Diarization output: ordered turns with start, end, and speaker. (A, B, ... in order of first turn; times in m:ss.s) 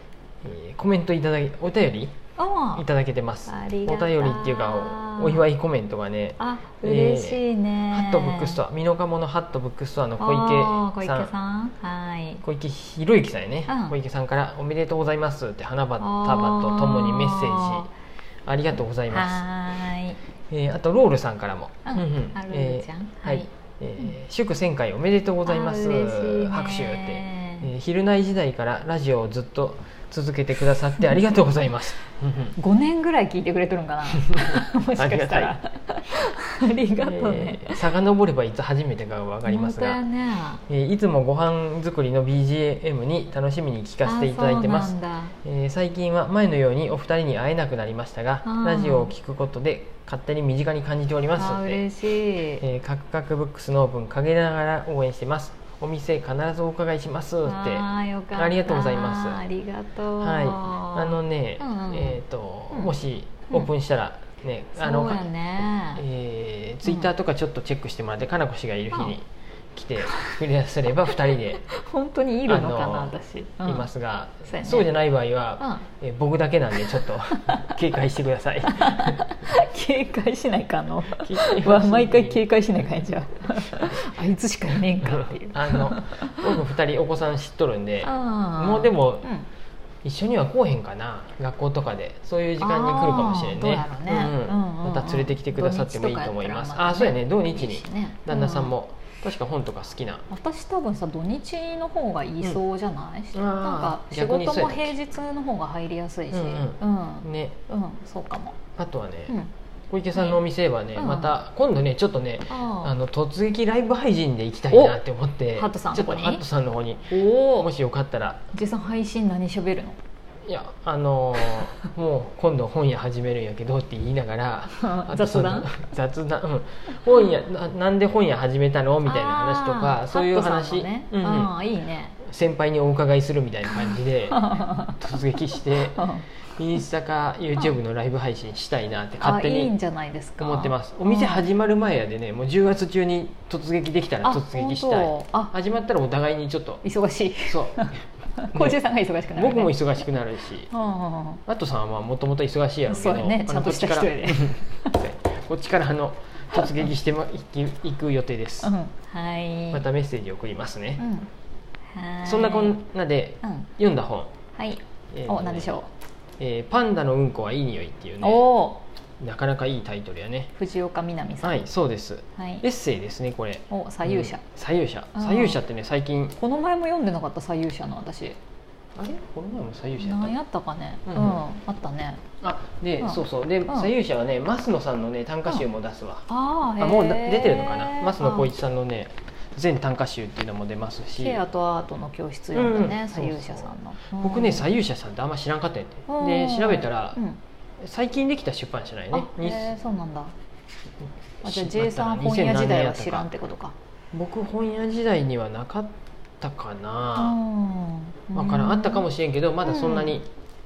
0:00.4-0:02.2 A
0:02.4-0:02.8 B
0:02.7-0:11.3 A
0:03.5-0:05.5 B
0:06.4-0:08.6 B
0:10.2-0:12.4 B
0:12.4-0:17.9 A
0:13.7-0:14.0 B
0:16.0-0:17.9 B
0:18.4-0:19.5 A
0:19.1-0:20.2 B
0:20.5-0:32.6 A
0:21.8-0:23.5 B
0:25.4-0:27.7 B
0:32.6-0:37.9 B
0:34.2-0:35.6 A
0:37.0-0:40.0 A
0:39.5-0:40.6 B
0:40.7-0:51.8 A
0:44.0-0:45.4 B
0:48.4-0:49.1 B
0:51.4-0:52.6 B
0:52.6-0:59.4 A
0:57.4-1:02.2 B
1:00.2-1:05.3 A
1:04.8-1:06.0 B
1:06.0-1:11.7 A
1:10.0-1:10.3 B
1:11.6-1:13.9 B
1:12.5-1:19.2 A
1:14.5-1:14.9 B
1:15.6-1:15.9 B
1:16.7-1:17.7 B
1:18.7-1:26.6 B
1:21.1-1:22.4 A
1:23.7-1:24.0 A
1:25.0-1:29.3 A
1:28.0-1:29.5 B
1:30.0-1:40.2 A
1:32.6-1:38.8 B
1:40.3-1:48.6 B
1:43.3-1:45.0 A
1:46.3-1:47.6 A
1:48.8-1:49.4 A
1:49.9-1:58.5 A
1:50.1-1:50.4 B
1:51.0-1:51.4 B
1:52.5-1:52.9 B
1:54.7-1:55.0 B
1:55.5-1:56.4 B
1:57.1-1:57.7 B
1:58.5-2:00.0 B
2:00.5-2:11.5 A
2:04.8-2:05.7 B
2:09.0-2:12.2 B
2:12.2-2:19.7 A
2:13.7-2:16.3 B
2:19.2-2:21.5 B
2:20.4-2:26.8 A
2:24.2-2:25.5 B
2:26.8-2:29.8 B
2:27.5-2:27.9 A
2:28.5-2:28.8 A
2:29.3-2:30.7 A
2:30.7-2:31.4 B
2:31.5-2:38.7 A
2:32.9-2:35.0 B
2:38.6-2:39.8 B
2:39.7-2:41.0 A
2:41.0-2:41.3 B
2:41.9-2:42.8 B
2:42.2-2:44.3 A
2:43.4-2:43.7 B
2:44.5-2:45.9 B
2:45.1-2:45.8 A
2:46.4-2:48.4 A
2:48.2-2:48.8 B
2:49.2-2:50.5 A
2:50.6-2:51.6 B
2:51.4-2:56.4 A
2:52.4-2:52.6 B
2:53.7-2:54.4 B
2:55.2-2:55.6 B
2:56.4-2:58.4 B
2:59.0-3:00.4 A
3:00.0-3:02.2 B
3:01.1-3:01.4 A
3:02.4-3:11.4 A
3:03.0-3:03.9 B
3:06.3-3:08.5 B
3:11.2-3:14.7 B
3:12.5-3:17.2 A
3:16.1-3:17.4 B
3:17.8-3:19.8 A
3:19.1-3:20.3 B
3:21.4-3:23.4 A
3:21.4-3:23.8 B
3:24.1-3:27.4 A
3:27.2-3:29.1 B
3:28.4-3:30.3 A
3:29.6-3:30.2 B